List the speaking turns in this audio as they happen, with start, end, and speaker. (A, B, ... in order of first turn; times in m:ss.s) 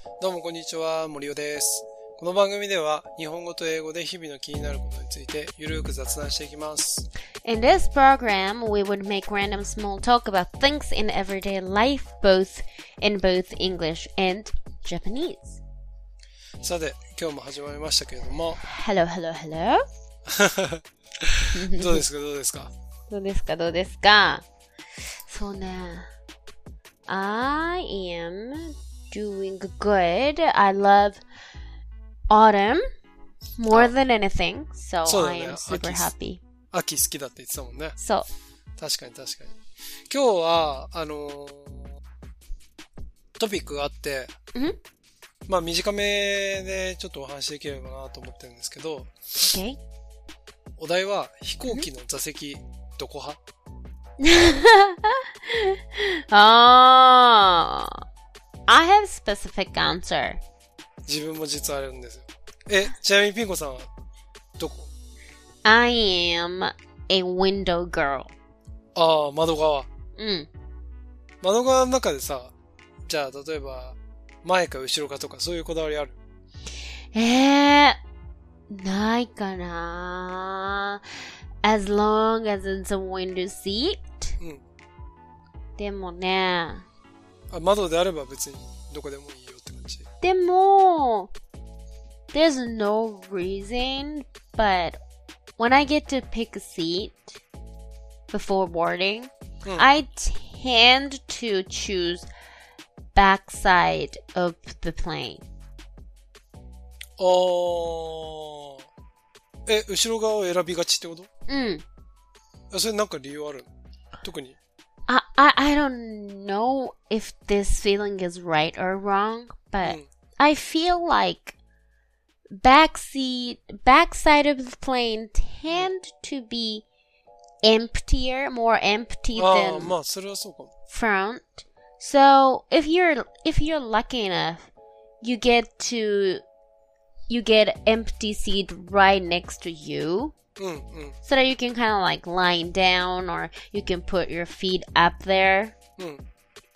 0:00.2-0:07.1 A
0:07.4-0:15.6 B
0:16.6-0:18.6 A
0:18.6-0:19.8 B
0:20.3-0:22.7 A
0:21.5-0:22.0 B
0:23.1-0:24.4 B
0:25.3-0:26.1 B
0:27.1-0:31.2 B
0:32.3-0:32.8 B
0:33.6-0:36.4 B
0:35.0-0:36.1 A
0:36.7-0:38.0 A
0:38.0-0:38.2 B
0:38.8-0:39.6 A
0:40.1-0:41.9 A
0:43.4-0:44.3 A
0:45.5-0:49.1 A
0:49.4-0:49.8 B
0:50.8-0:53.4 A
0:54.2-0:58.0 B
0:58.7-1:00.4 B
1:01.0-1:03.9 A
1:04.6-1:04.9 A
1:05.6-1:08.3 B
1:08.9-1:09.9 A
1:10.2-1:10.5 B
1:11.4-1:12.5 A
1:13.1-1:16.1 A
1:17.1-1:18.0 B
1:18.7-1:21.0 B
1:21.6-1:24.4 B
1:25.8-1:26.8 B
1:27.5-1:30.0 A
1:30.2-1:31.3 B
1:32.3-1:35.0 B
1:35.6-1:37.4 B
1:38.3-1:42.3 B
1:43.1-1:45.4 B
1:47.2-1:48.8 A
1:49.6-1:51.3 A
1:51.5-1:51.8 B
1:52.7-1:53.7 A
1:54.2-1:54.6 A
1:55.1-2:01.6 B
2:02.6-2:06.8 B
2:07.6-2:09.9 B
2:09.3-2:10.7 A
2:10.9-2:14.7 B
2:15.2-2:16.4 B
2:17.3-2:20.3 B
2:20.6-2:21.2 A
2:21.2-2:25.7 B